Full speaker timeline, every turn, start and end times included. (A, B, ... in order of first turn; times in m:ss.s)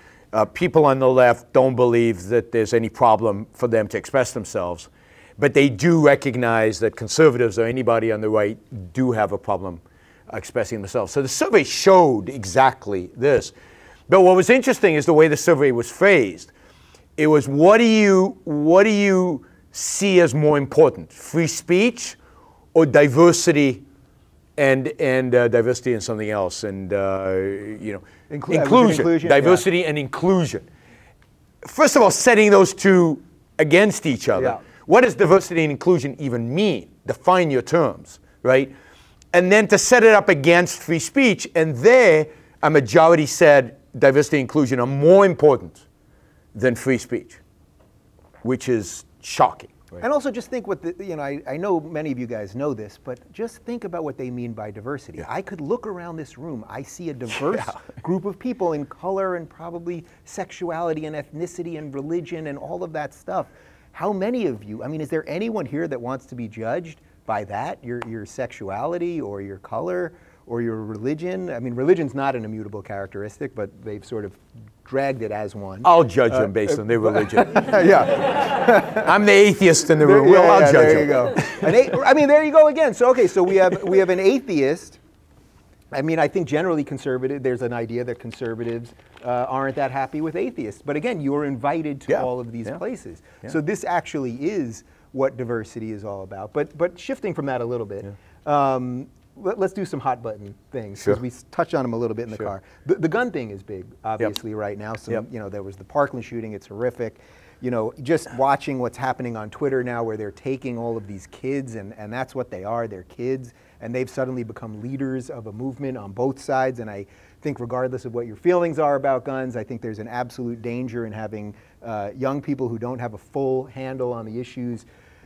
0:00.3-0:13.5 A
0:14.1-0:16.5 A
0:17.2-0:22.2 A
0:22.8-0:23.8 A
0:24.6-0:30.6 A
0:28.3-0:29.6 B
0:31.6-0:38.7 A
0:39.3-0:45.8 A
0:46.5-0:47.4 A
0:48.4-0:50.0 A
0:50.0-1:19.1 B
1:15.8-1:17.9 A
1:18.9-1:21.6 A
1:20.0-1:25.0 B
1:25.9-2:04.9 B